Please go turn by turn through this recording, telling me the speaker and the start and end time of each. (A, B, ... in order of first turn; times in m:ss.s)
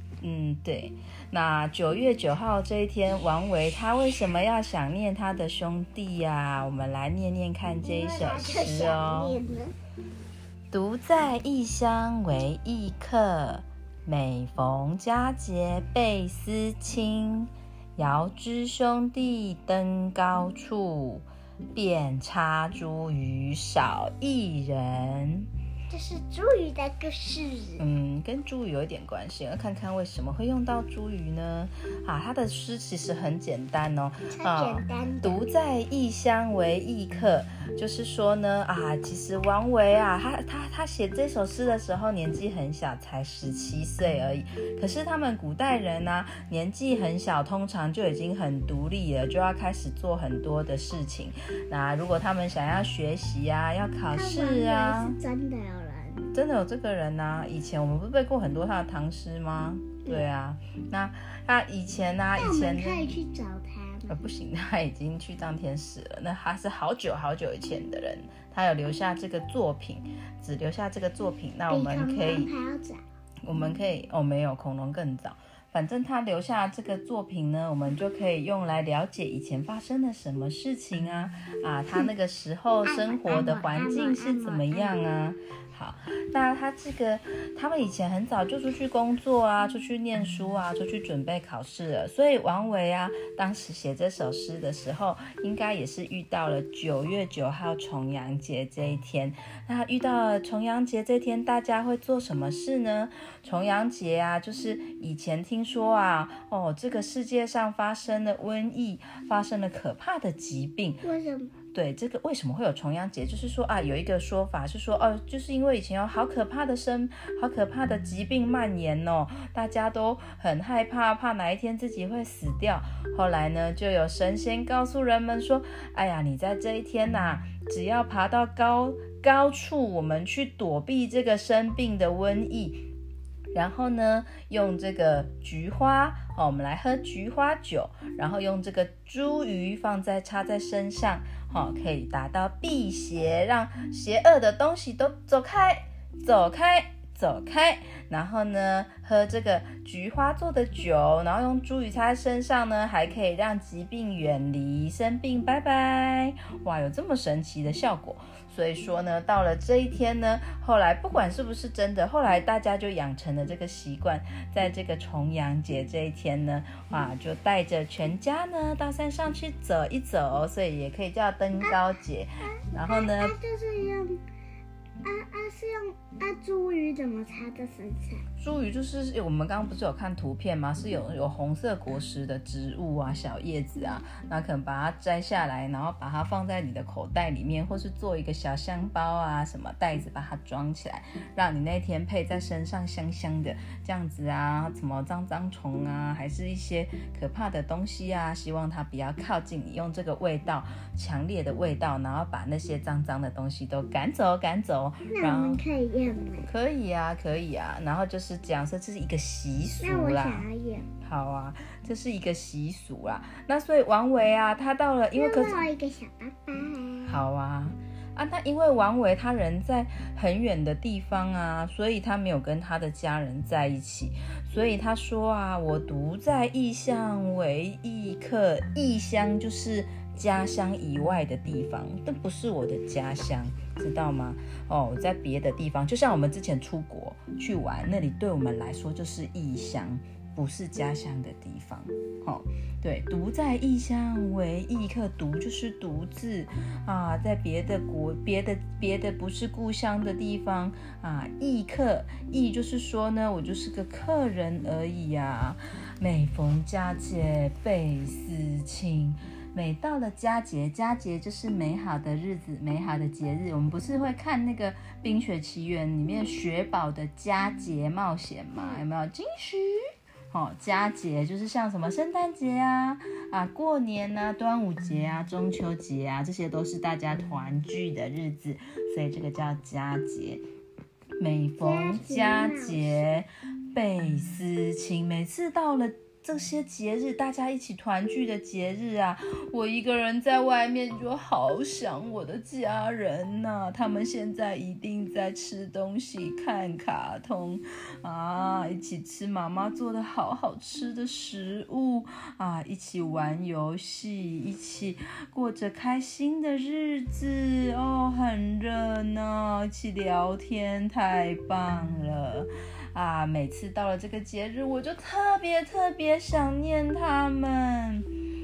0:00.2-0:09.4 A
0:07.8-0:09.7 B
0:10.7-0:25.5 A
0:25.9-0:27.8 B
0:27.8-0:55.2 A
0:34.3-0:35.5 B
0:54.1-0:56.2 B
0:56.3-1:03.2 A
1:02.3-1:04.2 B
1:04.1-1:12.5 A
1:11.7-1:13.0 B
1:13.4-1:51.0 A
1:22.8-1:24.9 B
1:51.0-1:51.5 B
1:51.7-2:12.8 A
2:13.5-2:53.3 A
2:52.9-2:54.2 B
2:55.0-2:58.2 B
2:58.4-3:25.6 A
3:25.1-3:26.4 B
3:26.4-3:30.4 A
3:29.8-3:30.9 B
3:31.0-3:35.6 A
3:35.1-3:37.2 B
3:37.0-4:29.8 A
4:28.6-4:28.8 B
4:30.3-4:40.4 A
4:41.2-5:18.1 A
4:41.6-4:43.0 B